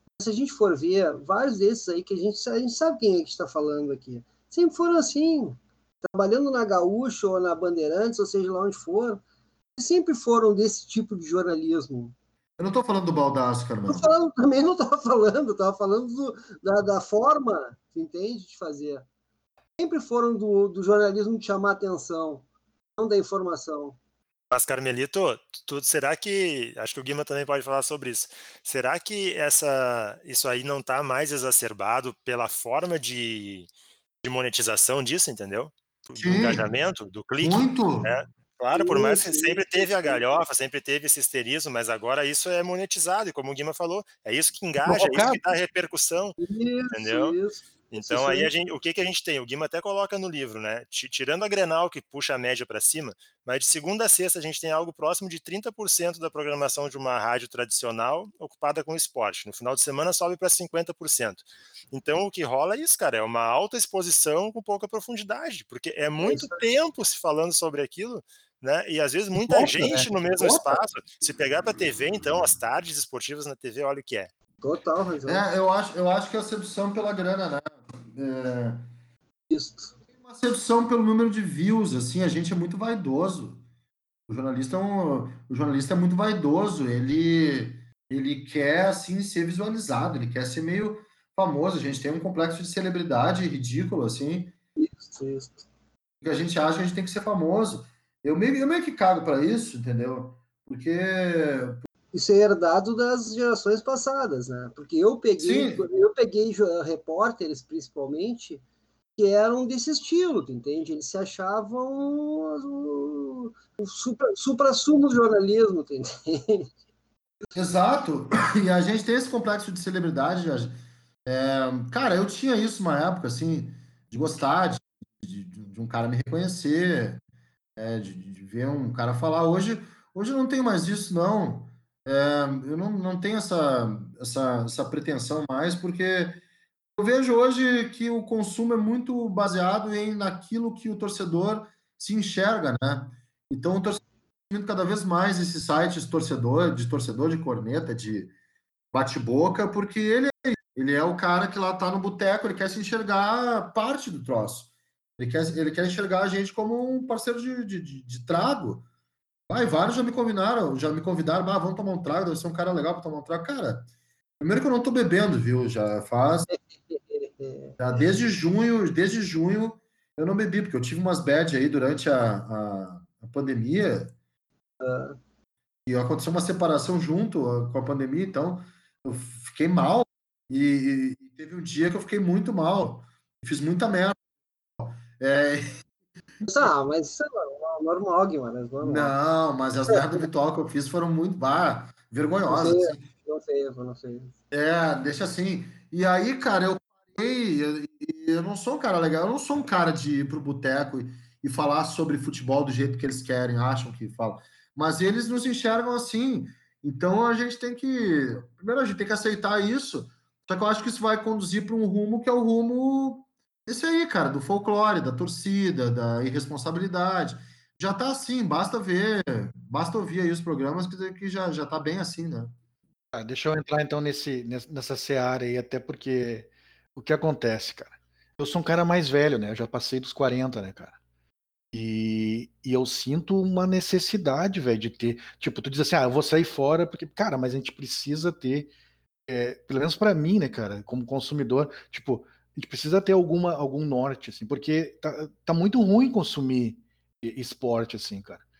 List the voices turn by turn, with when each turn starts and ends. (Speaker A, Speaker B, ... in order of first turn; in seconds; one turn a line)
Speaker A: 0.1-9.2
Speaker A: 9.8-12.1
Speaker B: 12.6-14.1
Speaker A: 13.9-19.1
Speaker A: 19.8-22.4
Speaker A: 23.0-24.0
Speaker C: 24.5-33.7
Speaker C: 34.2-46.4
Speaker B: 36.2-36.6
Speaker B: 37.4-38.1
Speaker A: 38.7-40.2
Speaker D: 44.8-45.4
Speaker A: 46.4-48.5
Speaker C: 46.9-47.4
Speaker C: 47.9-74.3
Speaker A: 66.2-66.6
Speaker D: 69.3-70.1
Speaker A: 74.6-75.5
Speaker B: 75.3-78.8
Speaker A: 79.5-79.9
Speaker B: 80.1-83.6
Speaker B: 84.3-94.5
Speaker A: 94.8-95.7
Speaker B: 96.2-101.8
Speaker A: 102.1-108.6
Speaker B: 105.4-105.8
Speaker A: 109.2-116.7
Speaker B: 117.5-120.7
Speaker B: 121.2-127.2
Speaker B: 127.8-136.4
Speaker B: 137.0-148.3
Speaker B: 148.9-158.8
Speaker B: 159.5-163.9
Speaker B: 164.4-166.5
Speaker A: 167.2-167.8
Speaker B: 167.8-174.1
Speaker A: 174.8-175.2
Speaker B: 175.8-184.2
Speaker B: 184.8-185.7
Speaker A: 186.4-189.1
Speaker B: 188.8-193.0
Speaker A: 192.5-194.3
Speaker B: 194.5-222.5
Speaker D: 223.1-230.9
Speaker D: 231.7-238.7
Speaker D: 239.3-248.4